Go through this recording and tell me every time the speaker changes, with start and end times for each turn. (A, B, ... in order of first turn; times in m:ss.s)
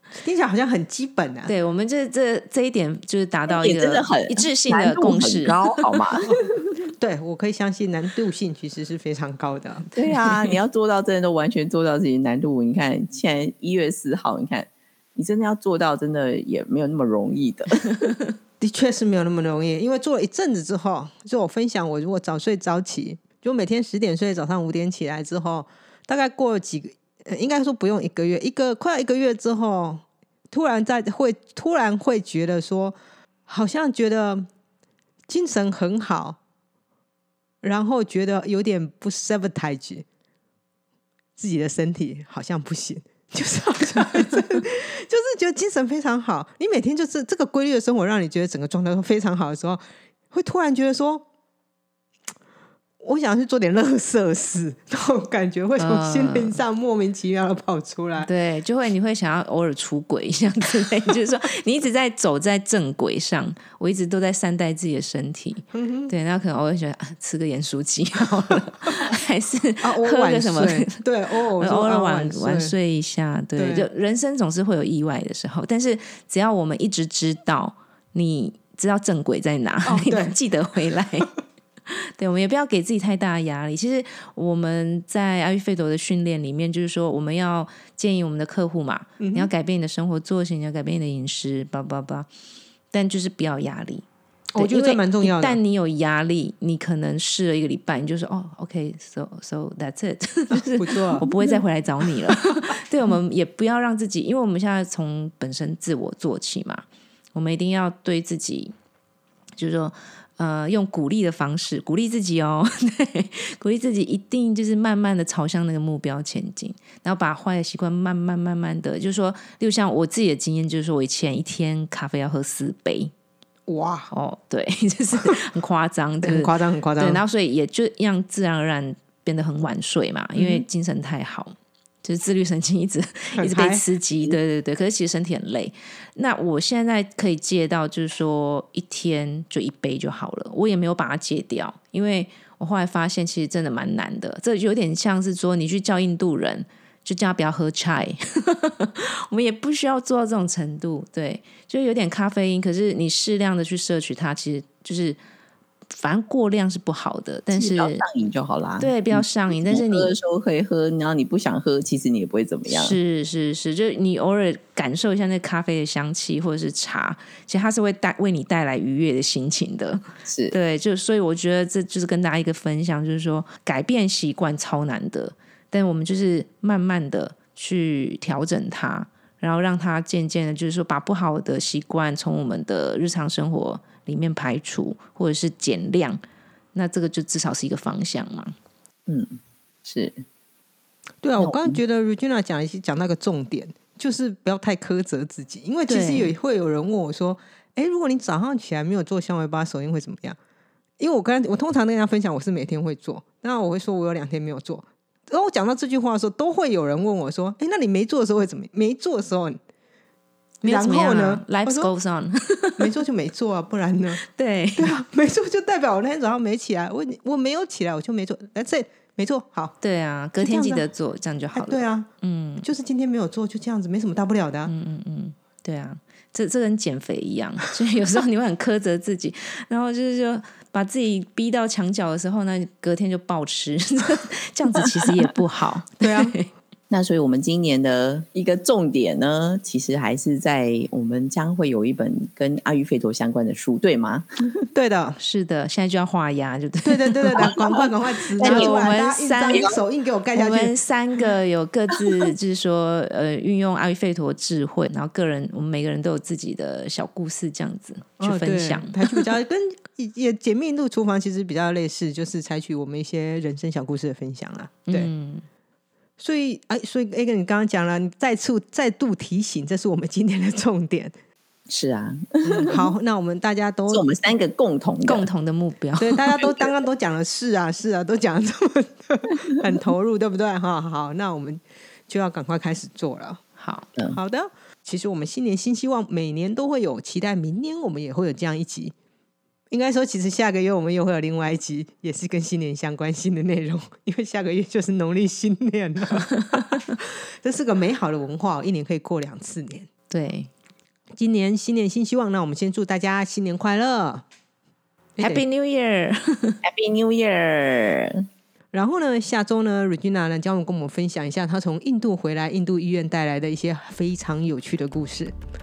0:00.2-0:01.5 A
0:01.5-0:06.1 B
0:03.5-0:06.7 C
0:07.0-0:09.9 A
0:10.0-0:18.1 C
0:18.6-0:34.5 A
0:35.3-0:36.4 A
0:37.6-0:40.0 A
0:41.4-0:51.2 A
0:53.0-0:58.3 A
0:55.8-0:56.6 B
0:58.2-1:11.0 B
1:05.7-1:06.1 A
1:09.8-1:12.8 A
1:11.6-1:21.3 B
1:13.6-1:13.9 A
1:19.8-1:20.4 A
1:21.9-1:32.3 B
1:29.2-1:29.5 A
1:32.9-1:34.0 B
1:34.5-1:35.6 A
1:34.6-1:48.7 B
1:40.5-1:41.6 A
1:49.6-2:03.1 B
2:03.7-2:04.1 A
2:04.1-2:35.2 B
2:06.2-2:07.2 A
2:10.4-2:10.6 A
2:13.4-2:14.4 A
2:35.9-2:38.0 B
2:37.5-2:43.0 C
2:38.8-2:40.1 B
2:42.7-3:06.2 B
2:50.3-2:50.6 C
3:06.8-3:08.6 B
3:09.1-3:10.2 C
3:11.2-3:20.4 A
3:11.4-3:11.8 C
3:15.9-3:16.4 B
3:21.0-3:29.6 A
3:30.6-3:33.0 B
3:30.6-3:31.9 A
3:32.8-3:34.2 A
3:34.2-3:35.0 B
3:34.8-3:39.8 A
3:39.8-3:42.7 B
3:40.4-3:40.8 A
3:41.5-3:42.1 A
3:42.6-3:44.7 A
3:44.7-3:56.5 B
3:56.0-3:56.4 A
3:56.9-4:04.3 C
4:04.7-4:05.2 A
4:05.2-4:07.6 B
4:06.8-4:10.7 A
4:08.4-4:08.8 C
4:08.4-4:09.8 B
4:09.5-4:09.8 C
4:10.3-4:19.2 B
4:18.2-4:25.1 A
4:24.9-4:25.4 B
4:26.2-4:31.1 A
4:31.7-4:32.8 C
4:32.4-4:34.1 A
4:33.9-4:35.3 C
4:35.0-4:36.5 B
4:36.0-4:43.4 A
4:43.6-4:43.9 B
4:44.1-4:48.9 A
4:49.7-4:59.9 A
5:00.1-5:00.5 B
5:01.2-5:04.2 A
5:05.2-5:05.4 A
5:05.2-5:06.6 B
5:06.6-5:08.3 C
5:08.7-5:15.3 A